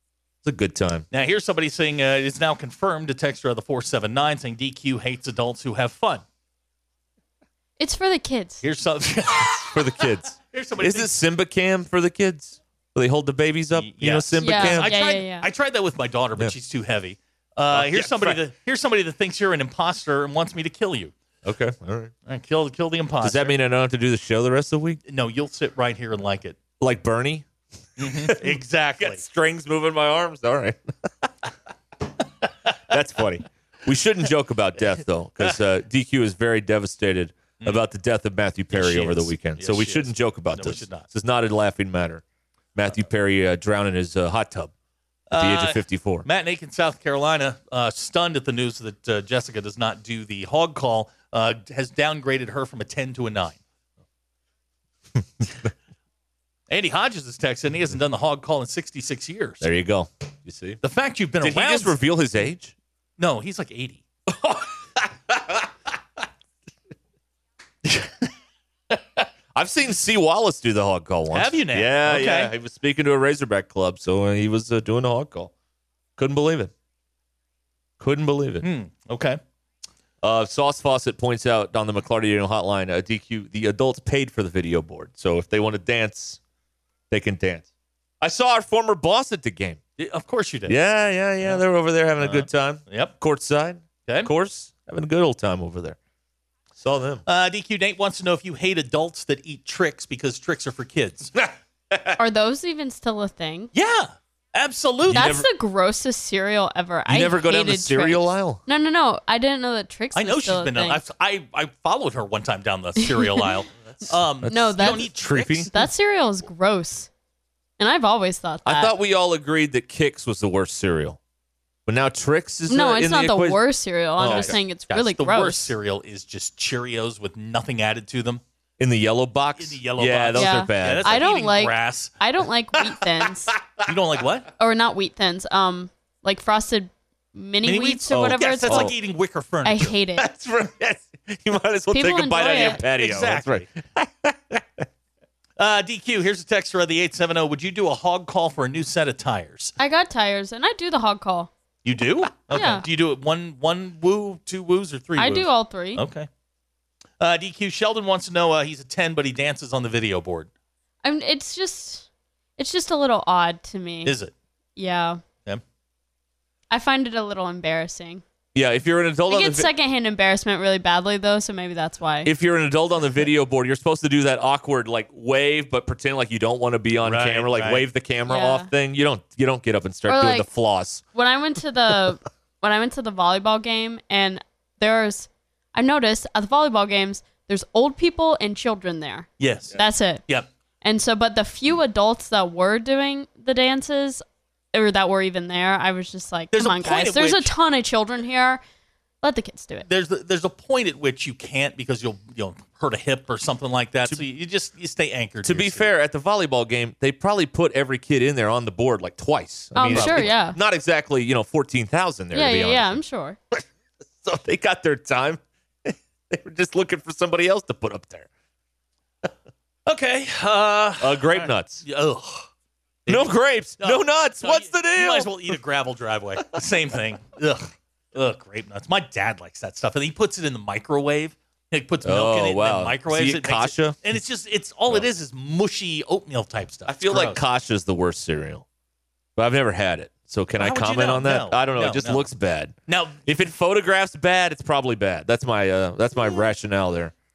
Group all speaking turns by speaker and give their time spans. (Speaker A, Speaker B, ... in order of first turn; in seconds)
Speaker A: 0.4-1.1, 9.5-15.0, 17.7-18.4, 21.4-22.1, 23.2-25.0, 26.8-27.5, 28.0-31.3, 32.9-42.2, 42.8-44.7, 45.3-46.3, 59.6-60.8, 61.4-62.7, 64.3-65.7, 69.5-75.5, 76.2-76.7, 78.0-78.7, 80.2-86.4, 87.1-87.7, 88.2-89.8, 90.7-96.0, 96.8-97.2, 101.4-102.2, 105.1-105.5, 107.1-108.6, 114.4-115.7, 118.7-121.2, 121.9-123.6, 124.2-124.6, 128.8-131.2, 133.2-133.9, 138.1-138.9, 140.2-144.8, 168.5-169.7, 172.2-181.0, 205.4-213.0, 214.2-218.3, 221.0-221.8, 223.1-225.4, 232.0-234.0, 236.9-238.7, 239.4-247.1
Speaker B: 1.1-6.2, 8.6-11.1, 13.7-21.1, 22.3-23.6, 25.1-26.6, 28.0-29.2, 38.7-41.1, 45.3-53.6, 56.7-59.7, 60.8-62.0, 63.2-64.0, 67.9-68.2, 71.3-72.5, 78.6-79.4, 90.0-90.8, 92.2-93.1, 97.3-101.3, 103.7-105.5, 110.2-115.7, 124.2-128.4, 129.6-132.1, 133.9-134.5, 137.6-139.9, 142.5-143.7, 145.6-149.7, 151.8-156.3, 157.2-160.5, 164.1-164.3, 177.0-177.8, 189.4-190.5, 196.5-197.5, 199.8-205.9, 209.9-210.3, 219.9-222.5, 223.1-237.4, 240.6-242.2, 242.9-243.2
Speaker C: 7.8-8.7, 14.4-15.5, 102.2-103.7, 105.1-111.0, 113.0-113.5, 114.5-115.1, 115.7-117.1, 117.8-118.9, 122.7-125.7, 130.4-133.5, 134.6-138.9, 139.7-140.3, 141.9-142.8, 149.8-151.5, 152.5-152.8, 155.2-156.0, 161.0-164.2, 164.8-165.2, 166.7-168.2, 169.3-172.3, 178.3-178.7, 180.1-180.5, 181.1-190.2, 190.8-198.6, 199.2-199.9, 209.8-210.6, 212.3-213.4